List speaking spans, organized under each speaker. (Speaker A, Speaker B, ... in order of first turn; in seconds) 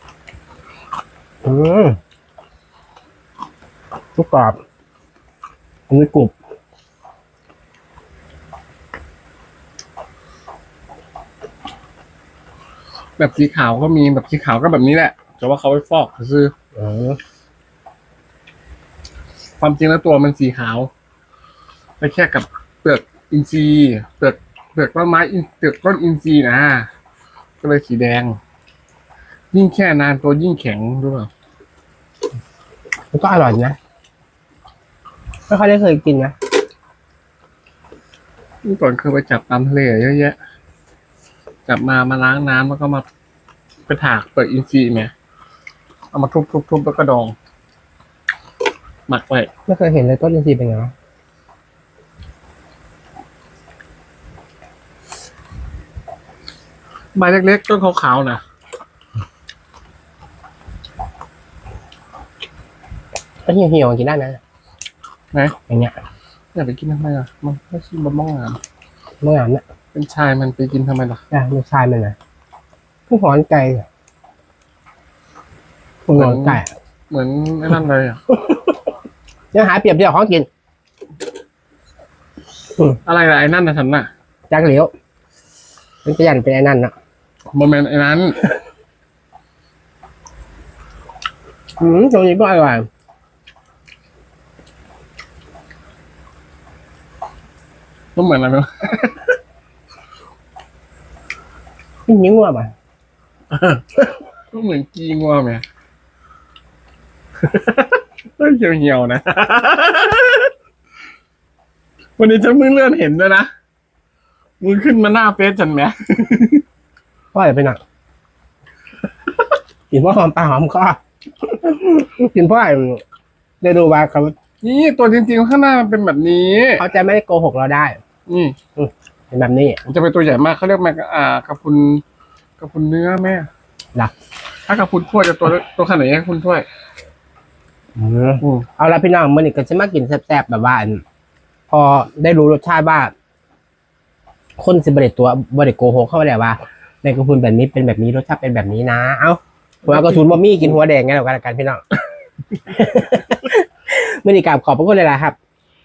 Speaker A: 1.4-1.9, 4.2-4.6, 5.9-6.3, 16.7-17.2, 33.1-33.8, 35.5-36.3, 49.7-50.9, 63.5-64.4, 65.7-65.9, 69.2-69.6, 71.3-72.2, 73.1-73.8, 76.1-76.7, 79.5-80.5, 84.5-84.9, 86.0-86.9, 91.8-92.9, 102.1-102.7, 117.3-117.8, 119.9-123.0, 123.6-124.3, 126.8-128.0, 128.8-129.8, 138.0-141.0, 141.7-143.1, 144.6-151.8, 152.7-155.3
Speaker B: 13.2-16.5, 19.6-20.9, 22.0-26.9, 27.6-28.4, 29.5-31.3, 38.6-40.4, 41.6-43.0, 43.9-45.1, 46.1-47.3, 49.1-49.5, 57.1-58.4, 66.5-68.6, 69.9-71.2, 76.1-78.2, 83.0-84.1, 87.5-88.4, 98.1-99.3, 103.5-104.0, 104.5-105.6, 107.4-110.5, 112.2-113.5, 114.6-116.6, 124.6-126.8, 128.3-128.5, 129.8-132.0, 132.6-133.5, 134.7-136.7, 138.4-138.7, 149.8-150.8